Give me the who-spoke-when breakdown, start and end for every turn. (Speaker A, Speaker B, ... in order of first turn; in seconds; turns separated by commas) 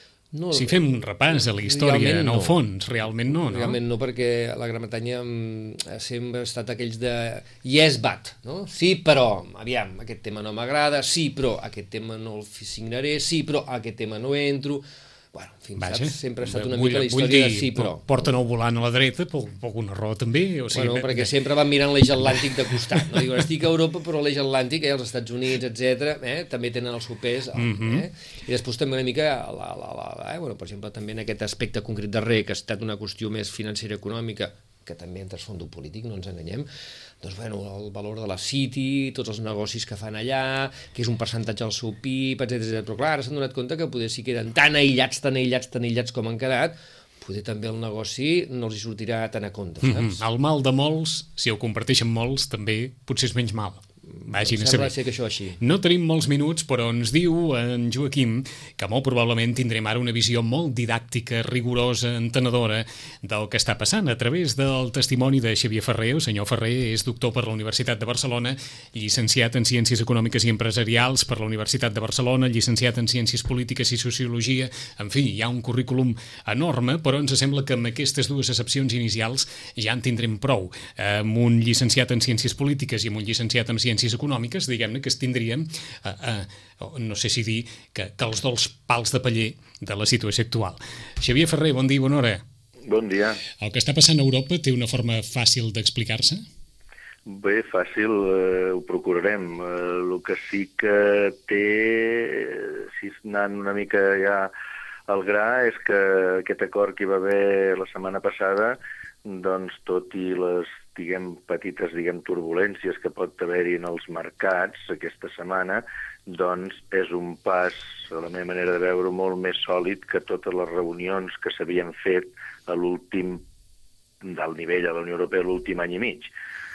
Speaker A: 0.3-0.8, Speaker B: 0.5-3.8, Speaker A: 1.4-2.6, Speaker A: 3.3-18.1, Speaker B: 15.8-21.3, Speaker A: 20.7-36.7, Speaker B: 27.6-28.1, Speaker A: 37.2-50.2, Speaker B: 49.8-54.9, Speaker A: 54.1-55.6, Speaker B: 55.6-92.4, Speaker C: 92.8-93.4, Speaker B: 93.6-96.4, Speaker C: 97.3-104.5, Speaker C: 105.1-123.4, Speaker C: 124.2-126.3